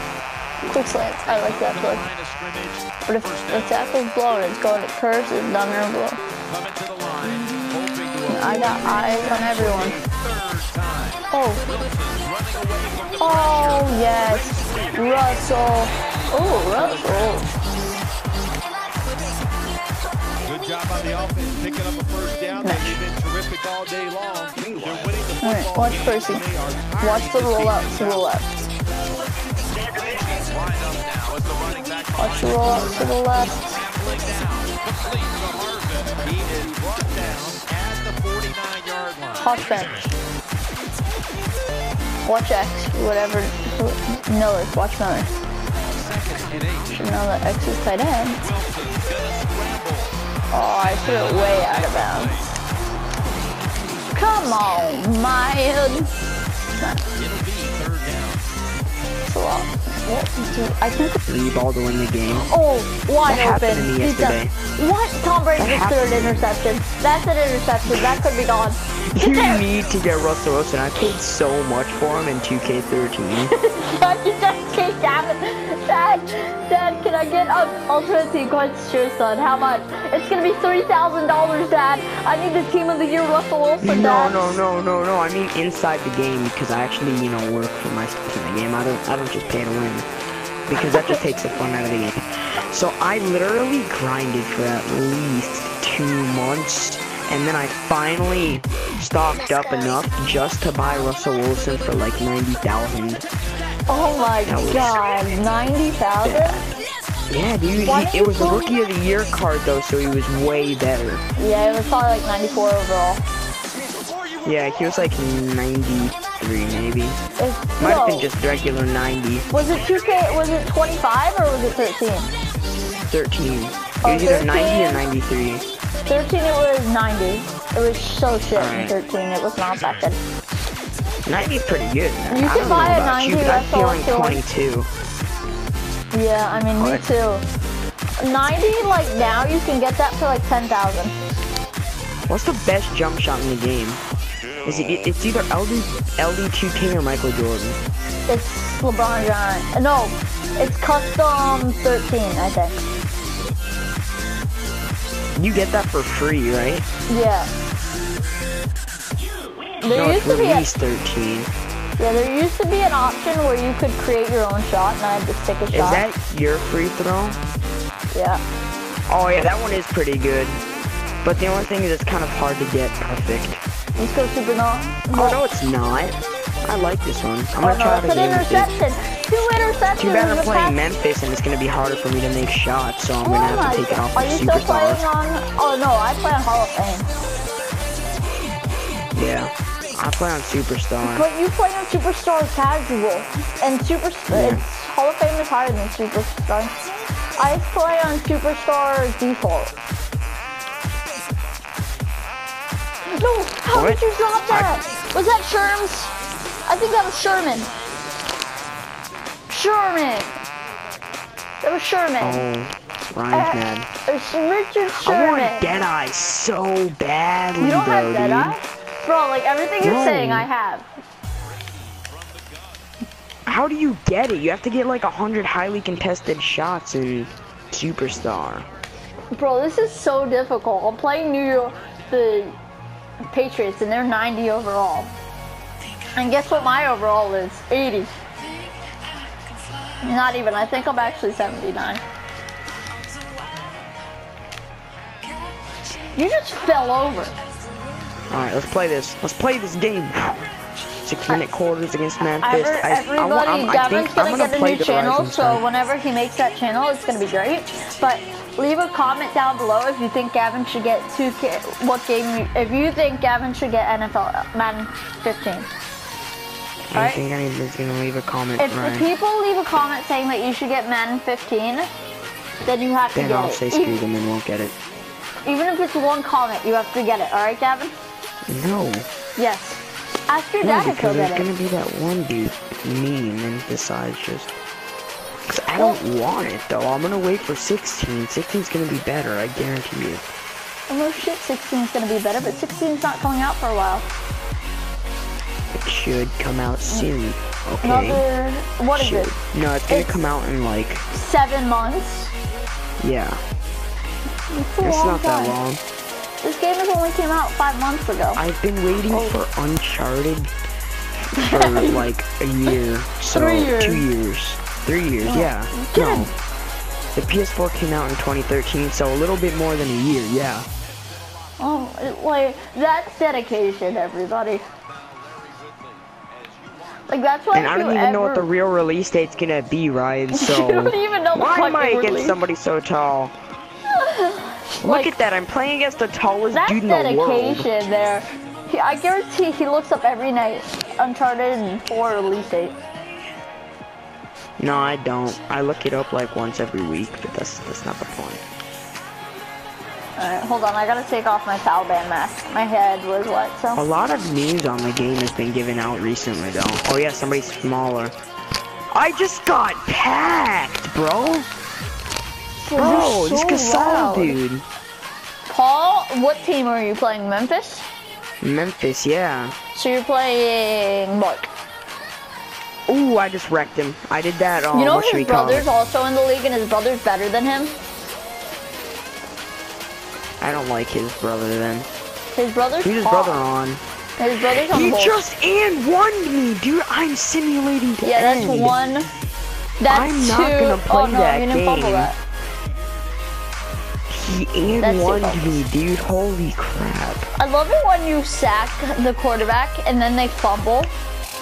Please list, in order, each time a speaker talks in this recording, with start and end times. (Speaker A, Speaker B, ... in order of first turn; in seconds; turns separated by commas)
Speaker A: 0.6-2.1, Speaker B: 1.2-3.8, Speaker A: 3.1-6.2, Speaker B: 6.5-17.6, Speaker A: 8.3-10.0, Speaker A: 11.3-11.6, Speaker A: 13.2-17.5, Speaker B: 20.4-28.4, Speaker A: 22.6-23.0, Speaker A: 25.4-26.4, Speaker A: 27.0-28.5, Speaker B: 29.4-39.6, Speaker A: 32.2-33.8, Speaker A: 39.4-40.1, Speaker A: 42.2-45.3, Speaker B: 45.9-47.1, Speaker A: 46.9-48.4, Speaker B: 48.4-50.2, Speaker A: 50.5-52.5, Speaker B: 50.9-52.6, Speaker A: 54.1-56.1, Speaker A: 56.8-57.0, Speaker B: 57.1-58.5, Speaker A: 59.2-61.2, Speaker C: 61.2-62.5, Speaker A: 62.5-69.6, Speaker C: 63.2-64.5, Speaker C: 65.5-66.4, Speaker C: 67.9-68.2, Speaker C: 69.1-73.5, Speaker A: 73.5-84.5, Speaker C: 83.8-90.1, Speaker C: 90.7-103.2, Speaker A: 90.8-91.2, Speaker A: 103.9-106.6, Speaker C: 104.4-105.0, Speaker C: 106.2-106.6, Speaker C: 107.3-111.2, Speaker A: 107.8-108.8, Speaker A: 111.4-113.2, Speaker C: 114.4-117.2, Speaker A: 117.4-118.3, Speaker C: 117.8-119.5, Speaker A: 119.5-122.3, Speaker C: 123.1-125.6, Speaker A: 124.0-125.0, Speaker A: 126.0-130.2, Speaker C: 128.5-128.9, Speaker C: 131.2-134.9, Speaker A: 132.3-134.4, Speaker A: 136.1-137.4, Speaker C: 136.8-137.0, Speaker A: 138.2-141.1, Speaker C: 142.3-144.0, Speaker C: 144.6-147.8, Speaker A: 148.3-152.8, Speaker C: 155.3-156.8, Speaker A: 157.1-157.5, Speaker A: 159.8-160.7, Speaker C: 159.9-161.5, Speaker A: 162.0-166.1, Speaker C: 165.7-167.4, Speaker A: 168.1-168.4, Speaker C: 169.1-170.6, Speaker C: 171.2-173.6, Speaker A: 174.0-175.4, Speaker C: 175.1-178.7, Speaker A: 177.6-180.8, Speaker C: 180.0-185.0, Speaker A: 183.2-187.1, Speaker C: 189.1-191.2, Speaker A: 191.0-196.8, Speaker C: 194.3-194.6, Speaker A: 197.4-199.7, Speaker A: 203.1-206.1, Speaker C: 203.7-204.7, Speaker A: 206.7-207.7, Speaker A: 209.5-210.4, Speaker A: 211.6-212.4, Speaker C: 212.2-213.9, Speaker A: 213.3-215.8, Speaker C: 214.9-218.6, Speaker A: 217.6-220.9, Speaker C: 219.8-220.5, Speaker B: 221.7-222.9, Speaker C: 223.4-228.7, Speaker A: 229.3-232.6, Speaker A: 233.2-235.1, Speaker A: 236.2-238.1, Speaker A: 240.0-242.0, Speaker A: 246.1-247.4, Speaker C: 248.3-250.5, Speaker C: 251.0-255.6, Speaker A: 252.4-265.7, Speaker C: 266.9-269.1, Speaker A: 266.9-267.2, Speaker A: 268.6-271.9, Speaker A: 272.6-274.0, Speaker C: 273.1-274.7, Speaker A: 275.4-277.9, Speaker C: 278.5-279.1, Speaker A: 279.4-281.5, Speaker C: 280.6-284.5, Speaker C: 285.5-290.2, Speaker A: 290.9-294.1, Speaker C: 295.7-298.2, Speaker A: 297.8-299.3, Speaker C: 298.9-301.0, Speaker A: 299.9-300.2, Speaker A: 301.1-302.3, Speaker C: 303.0-303.4, Speaker A: 304.5-305.6, Speaker C: 304.8-305.8, Speaker A: 306.4-308.4, Speaker C: 308.4-310.5, Speaker A: 309.1-309.4, Speaker C: 311.3-316.3, Speaker A: 311.4-312.0, Speaker A: 313.3-314.1, Speaker A: 315.2-316.3, Speaker C: 317.1-320.7, Speaker A: 321.6-324.6, Speaker B: 324.9-326.8, Speaker A: 327.1-328.5, Speaker C: 327.5-333.3, Speaker A: 330.3-332.4, Speaker A: 333.9-335.1, Speaker C: 334.8-337.7, Speaker A: 336.5-342.7, Speaker C: 344.6-348.4, Speaker A: 350.2-353.8, Speaker C: 353.7-358.1, Speaker C: 358.9-361.5, Speaker A: 362.6-364.4, Speaker C: 362.8-364.6, Speaker A: 365.5-367.9, Speaker C: 368.4-369.6, Speaker A: 369.7-371.5, Speaker C: 372.9-375.7, Speaker A: 374.7-377.7, Speaker C: 380.4-381.9, Speaker A: 382.4-383.4, Speaker C: 382.8-383.8, Speaker A: 384.2-385.2, Speaker C: 384.5-388.8, Speaker A: 388.0-389.1, Speaker A: 389.8-392.2, Speaker C: 389.8-392.1, Speaker C: 394.1-397.3, Speaker A: 394.8-395.6, Speaker A: 397.4-400.9